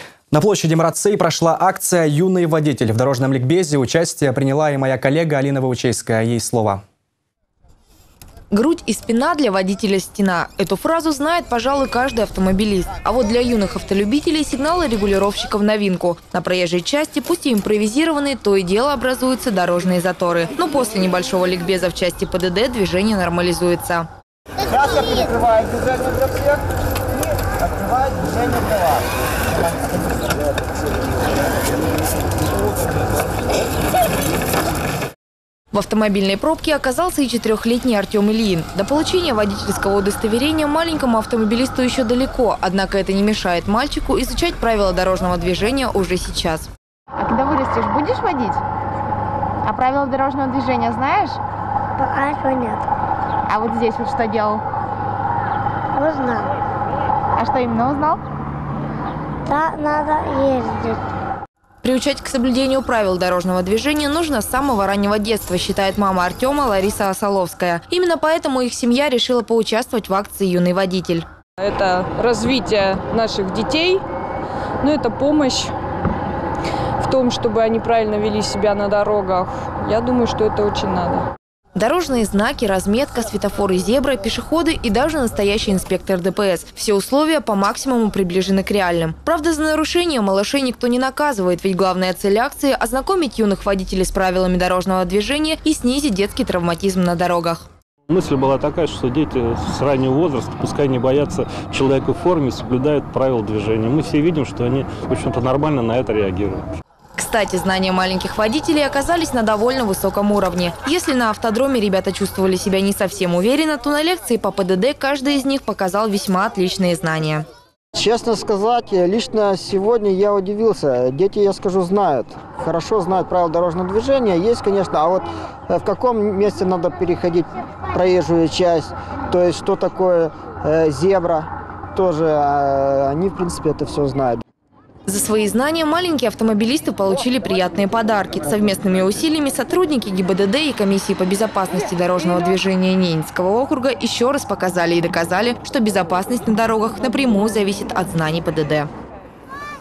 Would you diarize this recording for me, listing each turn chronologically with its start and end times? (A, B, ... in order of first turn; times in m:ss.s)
0:00.3-0:06.8 A
0:08.5-0:24.1 B
0:24.7-0:26.6 C
0:27.3-0:30.4 C
0:35.7-0:46.7 B
0:47.2-0:48.5 D
0:49.7-0:51.4 D
0:52.0-0:52.8 E
0:53.5-0:54.6 D
0:55.9-0:56.5 E
0:57.4-0:58.2 D
0:59.4-1:01.0 E
1:01.8-1:11.2 B
1:11.6-1:14.0 F
1:14.8-1:15.7 F
1:17.0-1:21.3 F
1:21.8-1:37.6 B
1:38.1-1:46.6 G
1:47.2-1:57.4 B
1:57.9-2:14.4 C
2:15.1-2:28.9 B